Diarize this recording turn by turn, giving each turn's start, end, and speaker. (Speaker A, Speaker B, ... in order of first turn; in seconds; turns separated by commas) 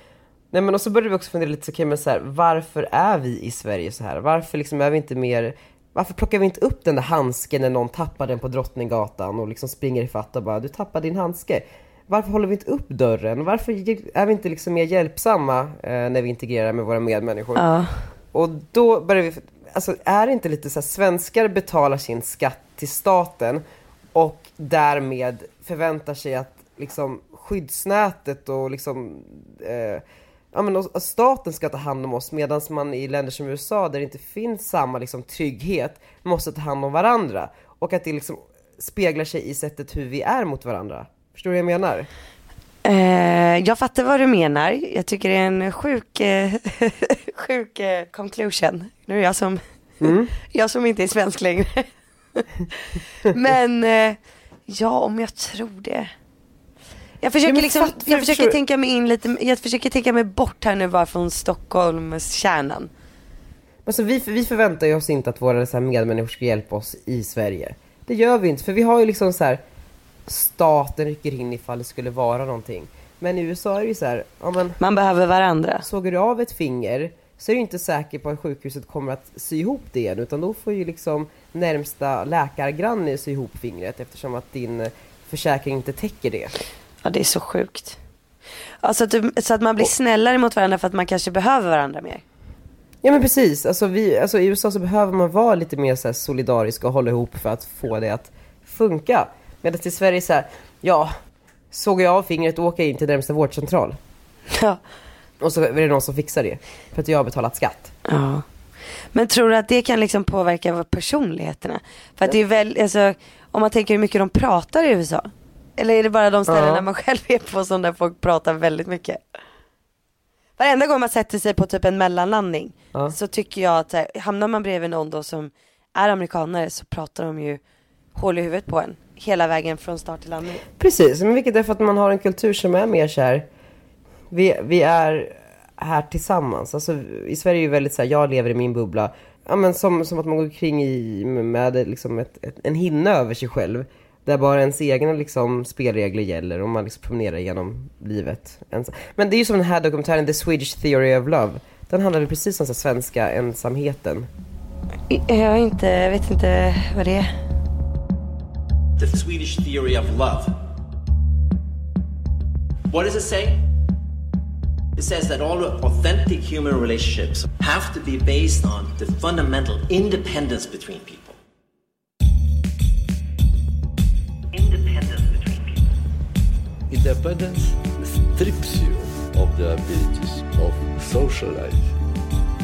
Speaker A: 0.5-17.7, Speaker B: 17.6-18.0, Speaker A: 18.3-23.6, Speaker A: 24.1-42.1, Speaker B: 42.8-49.6, Speaker A: 50.0-50.3, Speaker B: 50.4-56.1, Speaker B: 57.2-62.9, Speaker A: 57.4-58.6, Speaker A: 63.8-69.6, Speaker A: 70.3-74.8, Speaker B: 74.8-75.8, Speaker A: 75.8-86.5, Speaker B: 87.0-88.0, Speaker B: 88.8-92.2, Speaker A: 93.0-101.1, Speaker A: 101.7-104.0, Speaker B: 104.5-104.8, Speaker A: 105.4-107.9, Speaker B: 108.0-108.4, Speaker B: 109.1-119.2, Speaker A: 116.5-116.8, Speaker B: 120.6-127.6, Speaker B: 128.1-130.6, Speaker A: 130.8-133.5, Speaker A: 134.3-154.3, Speaker B: 155.1-157.3, Speaker C: 159.0-160.6, Speaker C: 162.9-163.6, Speaker C: 165.0-171.4, Speaker C: 174.5-175.7, Speaker D: 176.9-181.9